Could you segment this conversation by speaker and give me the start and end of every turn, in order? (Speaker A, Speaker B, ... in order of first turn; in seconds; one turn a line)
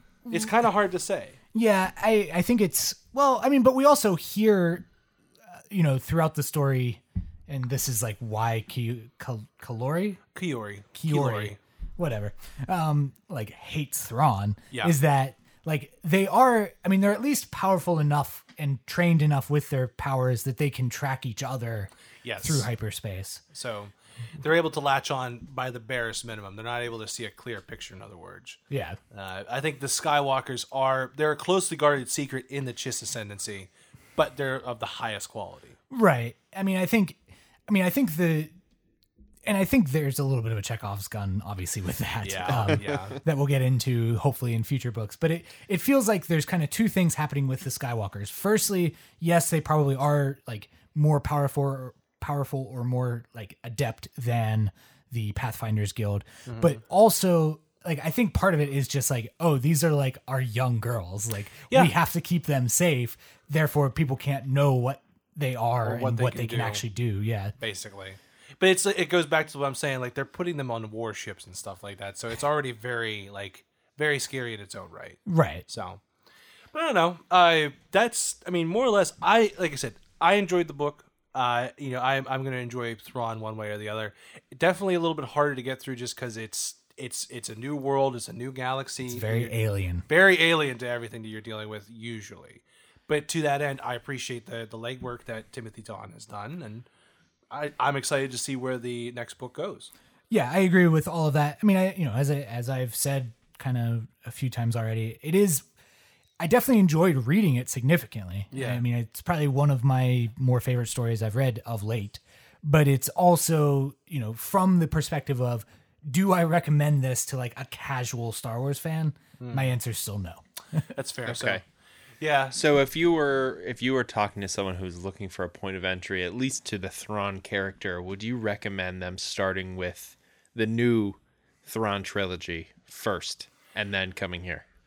Speaker A: 0.2-0.5
Speaker B: 0.3-1.4
Speaker A: 1.5-4.8
Speaker A: 5.5-10.2
Speaker B: 10.3-11.6
Speaker A: 10.9-23.4
Speaker B: 14.7-15.0
Speaker B: 22.2-22.7
Speaker B: 23.5-28.6
Speaker A: 28.7-29.0
Speaker B: 29.1-35.8
Speaker A: 35.9-38.5
Speaker A: 39.4-67.5
Speaker B: 42.2-43.2
Speaker B: 56.5-56.8
Speaker B: 65.8-66.8
Speaker B: 67.6-76.0
Speaker A: 75.2-75.6
Speaker B: 76.7-89.5
Speaker A: 89.1-90.0
Speaker B: 90.1-96.8
Speaker B: 97.5-99.9
Speaker A: 100.3-105.7
Speaker A: 106.4-120.8
Speaker B: 108.5-108.8
Speaker B: 119.4-119.7
Speaker B: 120.9-121.6
Speaker C: 121.2-121.6
Speaker B: 122.2-122.6
Speaker C: 122.5-134.6